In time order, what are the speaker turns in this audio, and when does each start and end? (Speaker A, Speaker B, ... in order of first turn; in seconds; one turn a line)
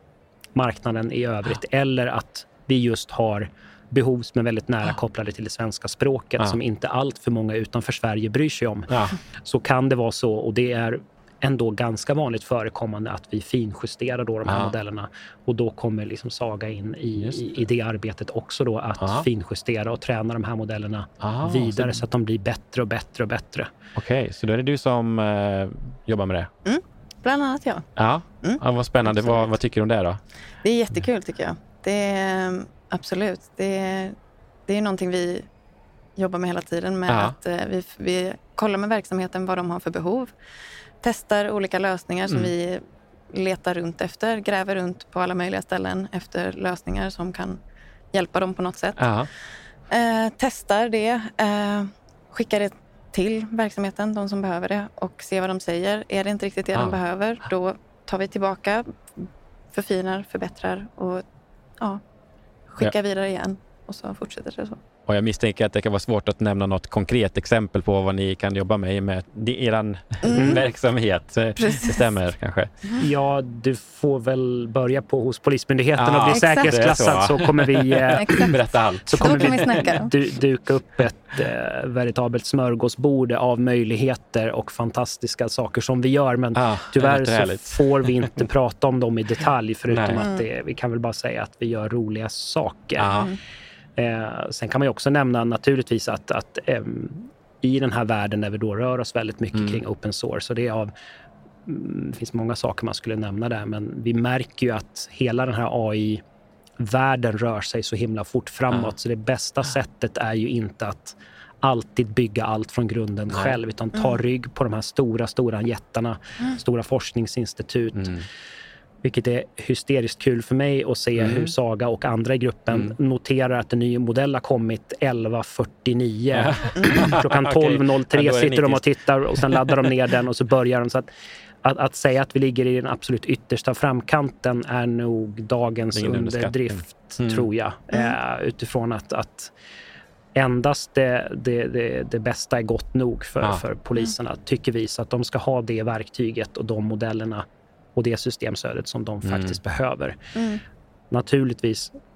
Speaker A: 0.6-23.7
Speaker B: 8.9-9.1
Speaker B: 14.5-14.7
Speaker B: 17.2-17.5
Speaker B: 19.0-19.3
Speaker B: 21.2-22.0
Speaker B: 23.9-26.5
Speaker C: 26.6-27.9
Speaker B: 28.0-30.2
Speaker C: 28.4-29.5
Speaker C: 30.6-34.2
Speaker C: 34.7-35.5
Speaker C: 36.2-40.3
Speaker B: 37.1-37.4
Speaker C: 41.0-47.6
Speaker C: 48.1-49.1
Speaker B: 49.0-49.3
Speaker C: 49.9-61.2
Speaker C: 62.7-64.8
Speaker B: 65.1-72.7
Speaker C: 70.2-70.6
Speaker A: 70.3-70.6
Speaker C: 71.6-72.1
Speaker A: 73.0-93.3
Speaker B: 76.0-79.9
Speaker C: 76.3-77.0
Speaker C: 78.2-80.1
Speaker B: 86.5-88.3
Speaker B: 89.9-90.2
Speaker C: 90.2-90.4
Speaker B: 93.0-93.3
Speaker C: 93.1-93.4
Speaker A: 94.0-100.9
Speaker B: 99.5-99.8
Speaker A: 101.7-106.2
Speaker A: 106.8-118.2
Speaker B: 118.0-118.2
Speaker A: 119.0-131.1
Speaker B: 121.2-121.5
Speaker B: 126.3-128.9
Speaker B: 129.4-129.7
Speaker A: 131.6-139.5
Speaker B: 135.9-137.5
Speaker A: 140.4-147.4
Speaker A: 148.0-150.2
Speaker B: 149.2-149.6
Speaker C: 150.3-150.6
Speaker A: 151.1-151.9